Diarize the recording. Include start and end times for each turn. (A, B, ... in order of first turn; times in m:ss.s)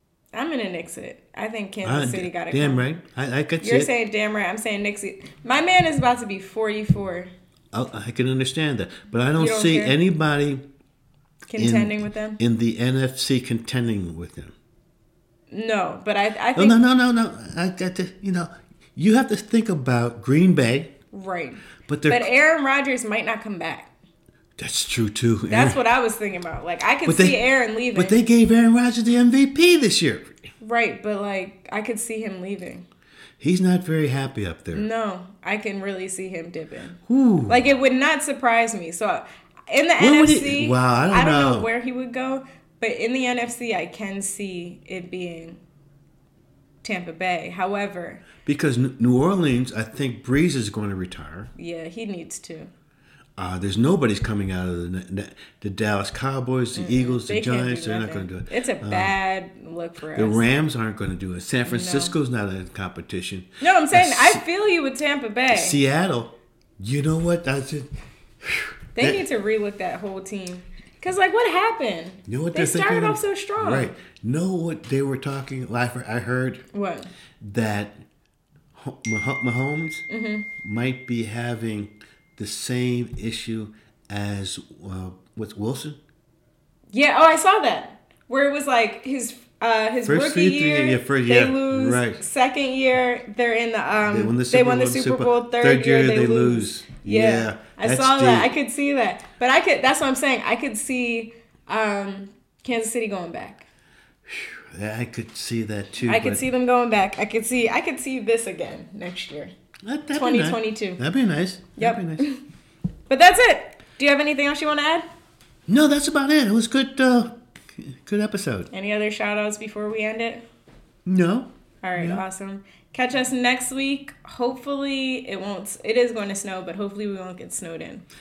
0:00.3-0:02.8 A
0:01.8-0:03.9 B
0:03.6-0:07.3 A
0:07.7-0:10.6 B
0:09.4-0:10.0 A
0:11.5-0:12.4 A
0:11.6-0:14.5 B
0:15.5-0:16.8 A
0:16.5-0:20.9 B
0:21.1-0:23.9 A
0:21.9-0:22.3 B
0:24.6-0:25.8 B
0:25.5-0:28.2 A
0:27.0-0:30.4 B
0:30.6-0:32.8 A
0:33.4-0:34.9 B
0:34.7-0:45.6 A
0:37.1-0:37.6 B
0:40.0-0:41.7 B
0:46.8-0:48.2 A
0:48.4-0:51.5 B
0:51.6-0:52.7 A
0:53.4-0:59.1 B
0:56.7-1:00.4 A
1:00.1-1:04.4 B
1:01.6-1:02.1 A
1:03.6-1:05.8 A
1:05.5-1:07.9 B
1:08.4-1:09.2 B
1:09.0-1:13.9 A
1:12.3-1:16.6 B
1:16.7-1:17.1 A
1:17.4-1:17.9 B
1:18.7-1:20.0 B
1:20.1-1:20.5 A
1:20.6-1:26.0 B
1:26.9-1:43.6 A
1:30.0-1:32.2 B
1:34.0-1:38.5 B
1:44.2-1:46.4 B
1:46.0-1:49.5 A
1:49.8-1:52.3 B
1:50.1-1:51.0 A
1:51.8-1:52.4 A
1:53.1-1:55.0 A
1:55.7-1:58.7 B
1:58.7-2:00.4 A
2:01.0-2:02.2 B
2:01.8-2:08.0 A